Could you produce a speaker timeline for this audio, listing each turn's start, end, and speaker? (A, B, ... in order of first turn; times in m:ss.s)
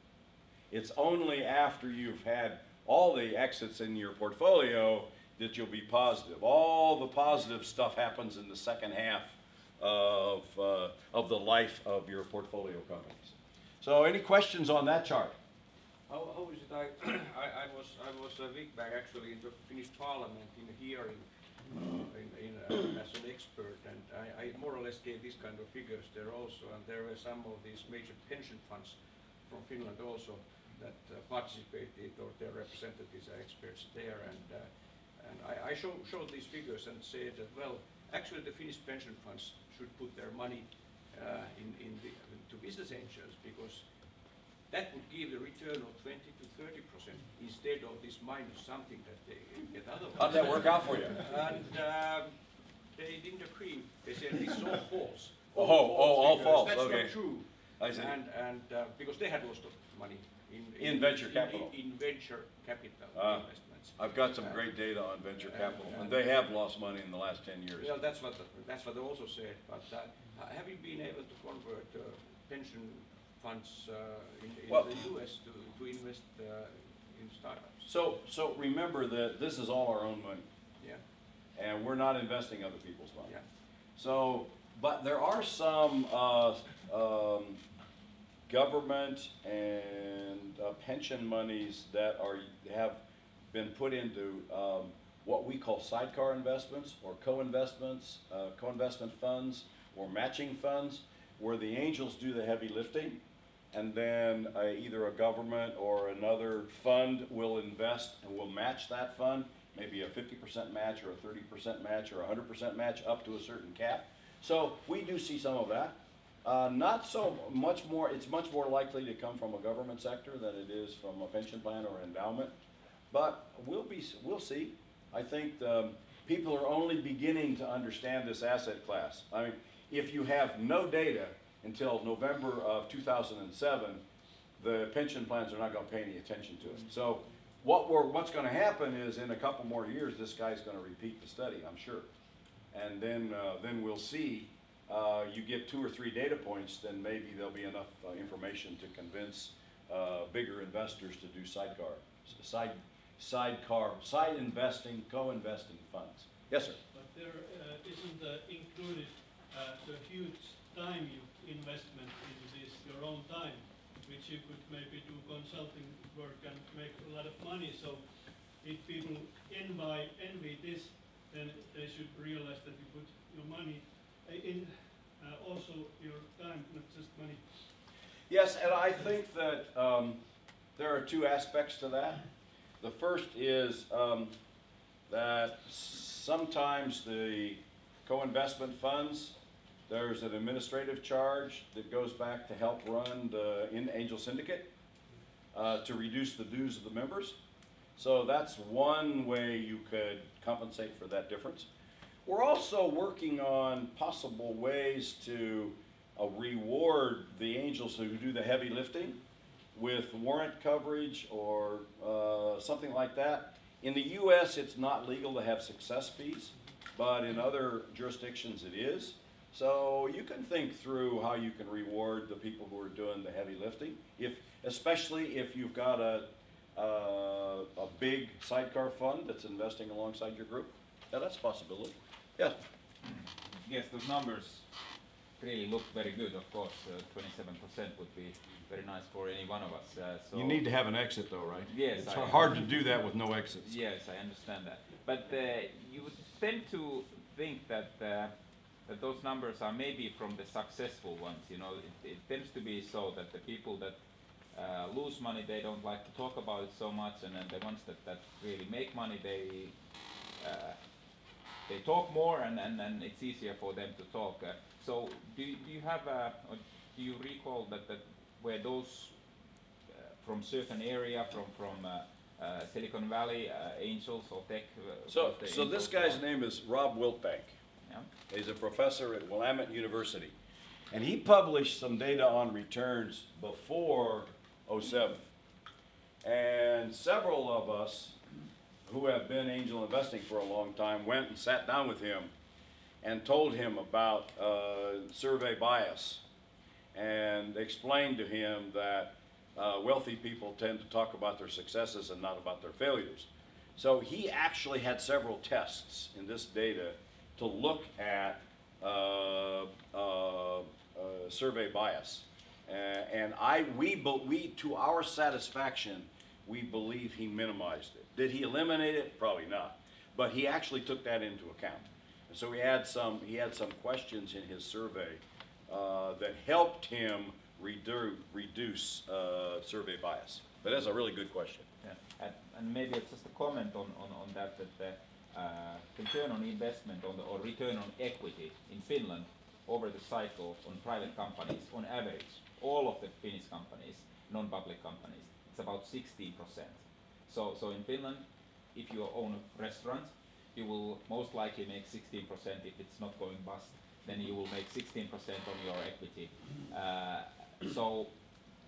0:00.7-0:15.4 A
0:16.1-0:29.0 B
0:29.5-0:43.8 B
0:44.7-0:52.4 B
0:50.2-0:51.2 A
0:52.9-1:04.7 B
0:55.6-0:57.2 A
0:57.8-0:58.2 A
1:00.8-1:01.7 A
1:03.2-1:03.4 A
1:04.0-1:07.9 A
1:05.4-1:06.2 B
1:07.8-1:17.9 B
1:14.7-1:15.0 A
1:17.9-1:20.5 A
1:21.6-1:23.3 A
1:24.0-1:27.6 A
1:28.5-1:33.0 A
1:33.5-1:43.2 A
1:43.7-2:02.5 A
2:03.1-2:14.0 A
2:14.6-2:22.1 A
2:22.7-2:36.8 A
2:36.9-2:48.0 C
2:48.6-2:57.5 C
2:58.3-3:00.2 A
3:00.8-3:02.2 A
3:02.8-3:04.3 A
3:05.1-3:09.4 A
3:09.9-3:14.7 A
3:15.5-3:17.4 A
3:18.0-3:21.7 A
3:22.3-3:29.2 A
3:29.7-3:52.6 A
3:53.6-3:54.6 D
3:55.4-4:00.6 D
4:00.3-4:03.8 A
4:01.7-4:02.8 D
4:03.6-4:08.3 D
4:08.9-4:14.0 D
4:14.5-4:19.8 D
4:20.4-4:20.8 D
4:21.7-4:29.1 D
4:29.9-4:36.2 D
4:35.1-4:37.6 A
4:38.3-4:40.3 A
4:40.9-4:45.2 A
4:46.2-4:48.2 A
4:48.9-4:52.3 A
4:53.0-4:56.2 A
4:56.9-5:31.7 A
5:31.8-5:58.1 D